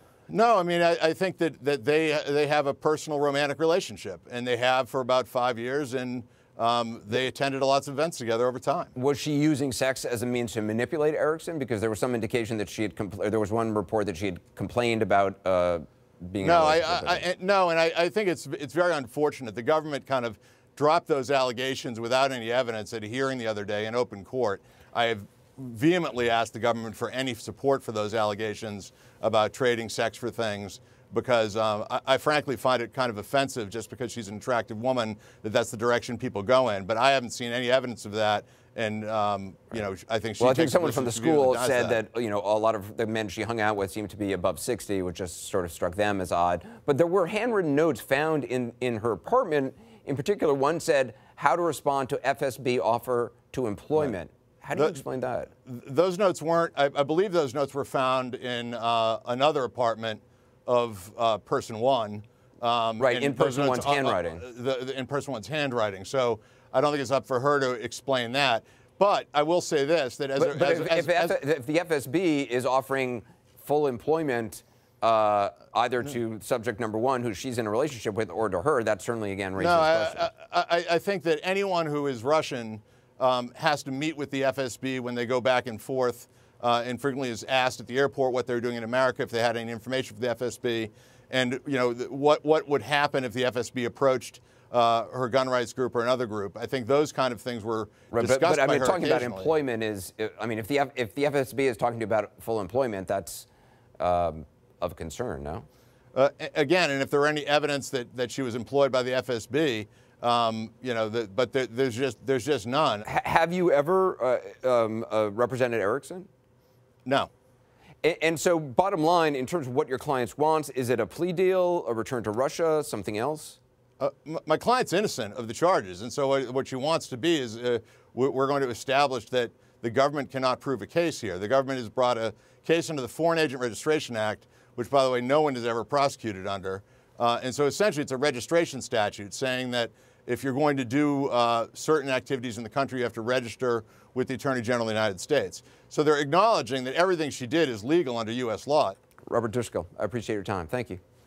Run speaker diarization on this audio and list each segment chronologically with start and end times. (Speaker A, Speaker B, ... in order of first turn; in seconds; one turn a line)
Speaker A: 0.3-8.9
Speaker B: 8.9-17.3
Speaker A: 16.4-42.0
Speaker B: 40.4-55.5
Speaker A: 54.8-55.0
Speaker A: 55.7-71.4
Speaker B: 63.0-64.4
Speaker B: 70.4-80.3
Speaker A: 79.6-99.5
Speaker B: 98.1-103.5
Speaker B: 104.0-105.7
Speaker A: 106.1-113.1
Speaker B: 113.0-116.3
Speaker A: 117.0-117.3
Speaker B: 118.0-123.6
Speaker A: 124.0-149.0
Speaker B: 149.3-151.0